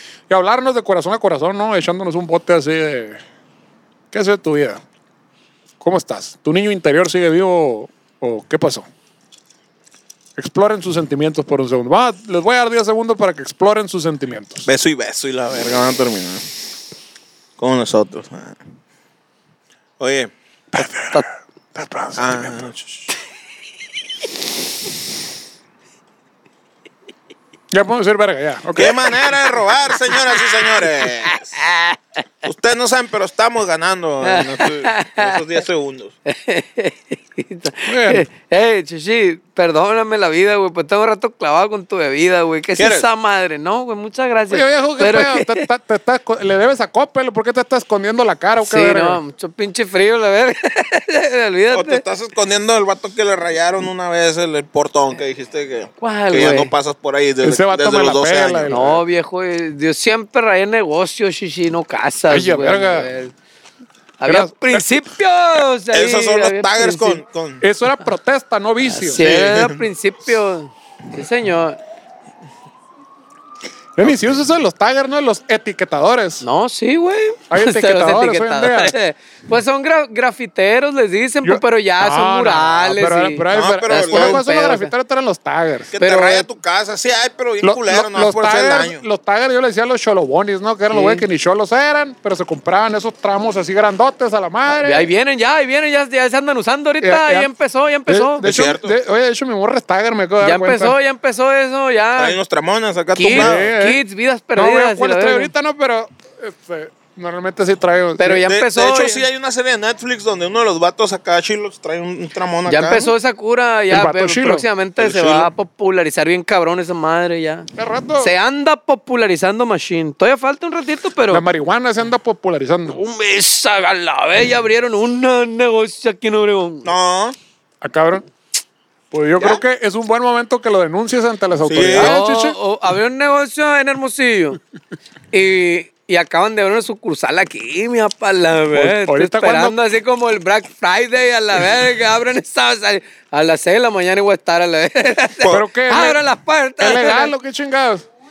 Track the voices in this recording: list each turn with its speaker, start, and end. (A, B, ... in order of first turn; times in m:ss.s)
0:00.3-0:03.2 A
0:04.1-0:04.8 A
0:05.8-0:08.9 A
0:10.4-0:14.7 A
0:14.6-0:16.5 B
0:17.6-0:18.6 B
0:20.0-0:20.3 B
0:20.7-0:22.6 A
0:22.2-0:23.1 B
0:27.7-0:29.0 A
0:28.7-0:31.5 B
0:31.6-0:32.0 C
0:32.4-0:36.1 B
0:34.2-0:35.4 C
0:36.2-0:45.6 C
0:37.8-0:38.2 A
0:42.8-0:43.0 B
0:44.5-0:49.2 A
0:48.6-0:52.0 C
0:51.7-0:58.8 B
0:56.0-0:56.7 C
0:57.4-0:59.0 A
0:58.7-1:03.3 C
1:02.3-1:03.1 A
1:04.2-1:07.2 C
1:04.3-1:04.9 A
1:05.9-1:07.6 B
1:07.6-1:09.2 A
1:08.9-1:11.8 C
1:09.2-1:09.8 B
1:14.0-1:16.4 A
1:16.4-1:24.9 C
1:17.5-1:18.9 A
1:21.4-1:25.9 A
1:23.5-1:24.4 B
1:25.9-1:29.0 B
1:26.0-1:26.5 C
1:27.6-1:35.1 A
1:30.9-1:31.2 C
1:34.7-1:38.4 C
1:37.0-1:37.5 A
1:38.1-1:41.0 A
1:38.4-1:38.9 B
1:40.4-1:42.4 C
1:42.2-1:43.7 B
1:43.1-1:45.5 C
1:43.3-1:44.0 A
1:44.6-1:48.4 A
1:48.2-1:49.2 C
1:48.4-1:53.1 B
1:52.6-2:01.4 C
1:53.9-1:54.6 A
1:55.0-1:55.5 B
1:57.8-1:58.3 A
2:01.3-2:03.0 A
2:02.9-2:06.9 C
2:06.8-2:07.4 B
2:07.8-2:08.2 A
2:09.1-2:12.6 A
2:11.6-2:12.2 B
2:11.9-2:14.6 C
2:15.3-2:27.3 C
2:18.7-2:19.8 A
2:25.4-2:26.2 A
2:26.8-2:28.0 A